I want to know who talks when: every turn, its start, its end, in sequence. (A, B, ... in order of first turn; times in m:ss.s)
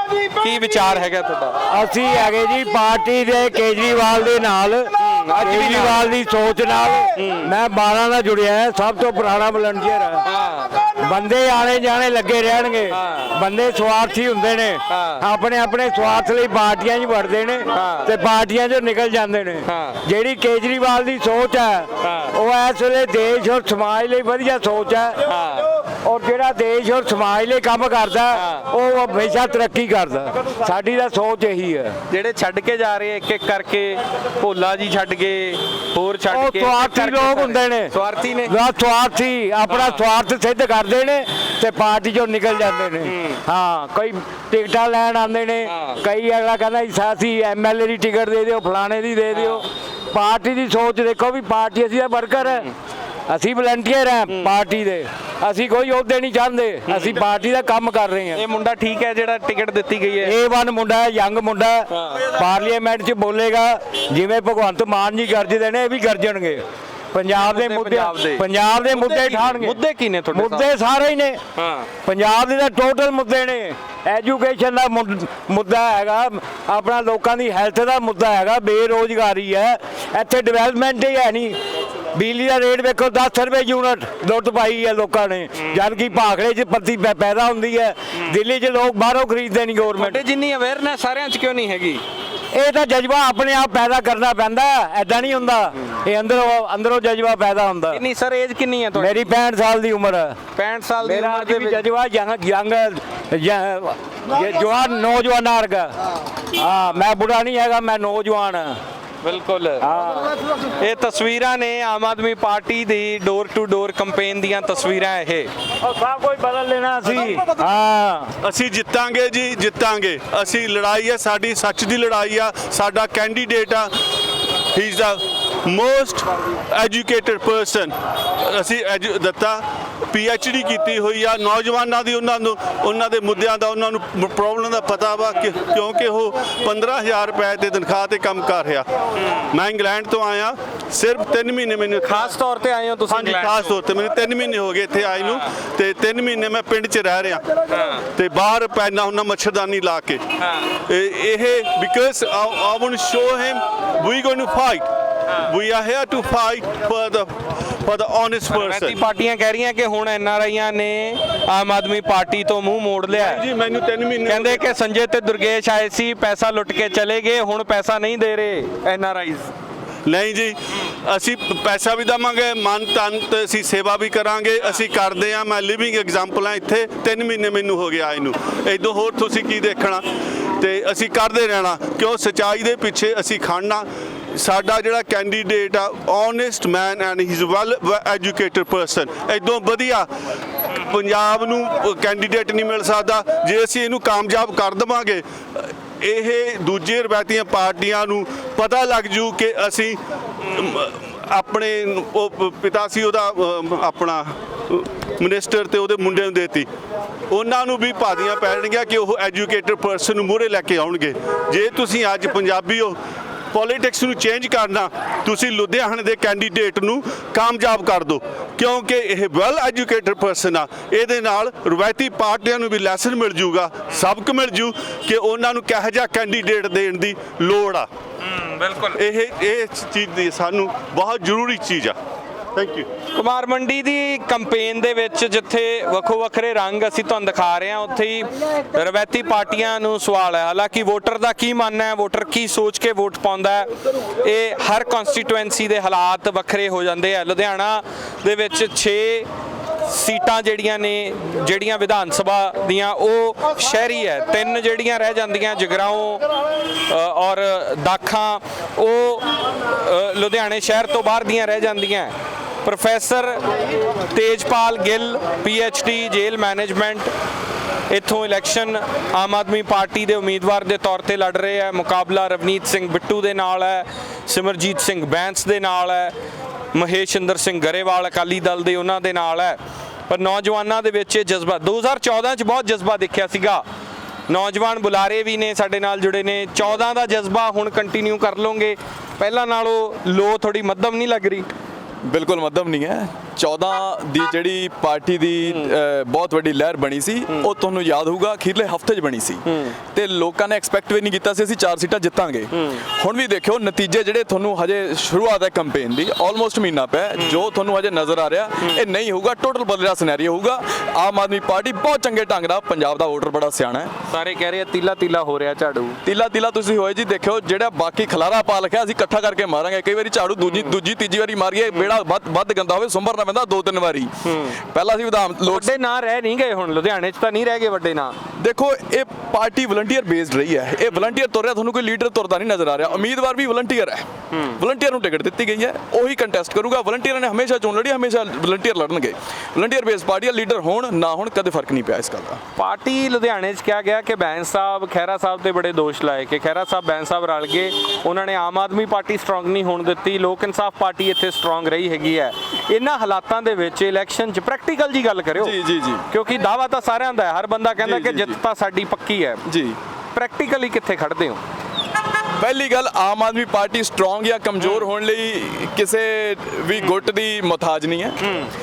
0:00.4-0:01.6 A
0:01.7-0:10.2 B
0:05.0-0:06.1 A
0:07.2-0:07.6 A
0:10.2-0:10.8 A
0:11.0-0:25.2 B
0:12.9-0:13.4 A
0:14.9-0:15.2 A
0:17.7-0:18.2 A
0:19.6-0:20.0 A
0:22.0-0:22.4 A
0:25.2-0:25.7 A
0:26.0-0:32.0 B
0:28.3-0:28.7 A
0:32.1-0:38.6 A
0:36.3-0:37.9 B
0:38.4-0:52.7 B
0:39.6-0:40.1 A
0:43.0-0:43.4 A
0:45.6-0:46.0 A
0:49.3-0:49.7 A
0:52.4-0:52.7 A
0:53.3-0:58.4 B
0:54.3-0:54.6 A
0:56.9-0:57.2 A
0:58.3-1:00.4 A
1:00.2-1:09.8 B
1:01.9-1:02.3 A
1:07.3-1:10.7 A
1:10.3-1:11.4 B
1:11.6-1:11.9 A
1:12.0-1:21.6 B
1:22.1-1:30.2 B
1:25.6-1:26.2 A
1:30.0-1:32.0 A
1:32.5-1:38.0 B
1:37.9-1:39.3 A
1:39.0-1:40.4 B
1:40.6-1:41.9 A
1:41.0-1:45.9 B
1:46.6-1:48.8 B
1:49.2-1:49.9 A
1:49.8-1:50.3 B
1:50.8-1:55.5 A
1:55.9-1:58.3 B
1:58.4-2:03.9 C
2:04.7-2:18.9 C
2:19.5-2:22.2 C
2:22.0-2:23.8 A
2:23.1-2:27.4 C
2:27.7-2:28.0 A
2:28.2-2:30.2 C
2:30.9-2:34.9 C
2:35.4-2:37.3 C
2:37.8-2:39.0 C
2:38.5-2:43.4 A
2:43.1-2:44.6 C
2:44.3-2:49.5 A
2:50.1-3:00.0 C
3:00.6-3:10.1 C
3:10.8-3:26.7 C
3:27.3-3:33.0 C
3:33.5-3:47.9 C
3:48.2-3:49.0 A
3:49.0-3:52.0 C
3:52.6-3:52.9 C
3:53.1-4:03.7 A
4:04.2-4:09.3 A
4:09.9-4:16.2 A
4:16.9-4:22.1 A
4:22.6-4:23.4 A
4:24.1-4:27.1 A
4:27.9-4:36.1 A
4:36.7-4:39.6 A
4:40.1-4:43.6 A
4:44.3-4:51.5 A
4:52.1-5:13.9 D
4:59.5-4:59.8 A
5:02.5-5:02.8 A
5:07.2-5:07.5 A
5:14.1-5:16.0 A
5:16.0-5:24.1 D
5:20.4-5:20.8 A
5:24.2-5:24.6 A
5:24.7-5:25.7 D
5:25.4-5:28.1 A
5:28.4-5:42.4 D
5:34.3-5:34.6 A
5:42.6-5:55.6 A
5:55.4-5:56.0 D
5:56.1-5:59.4 A
5:57.8-5:58.4 D
5:59.5-5:59.8 D
6:00.1-6:01.4 A
6:02.4-6:08.2 D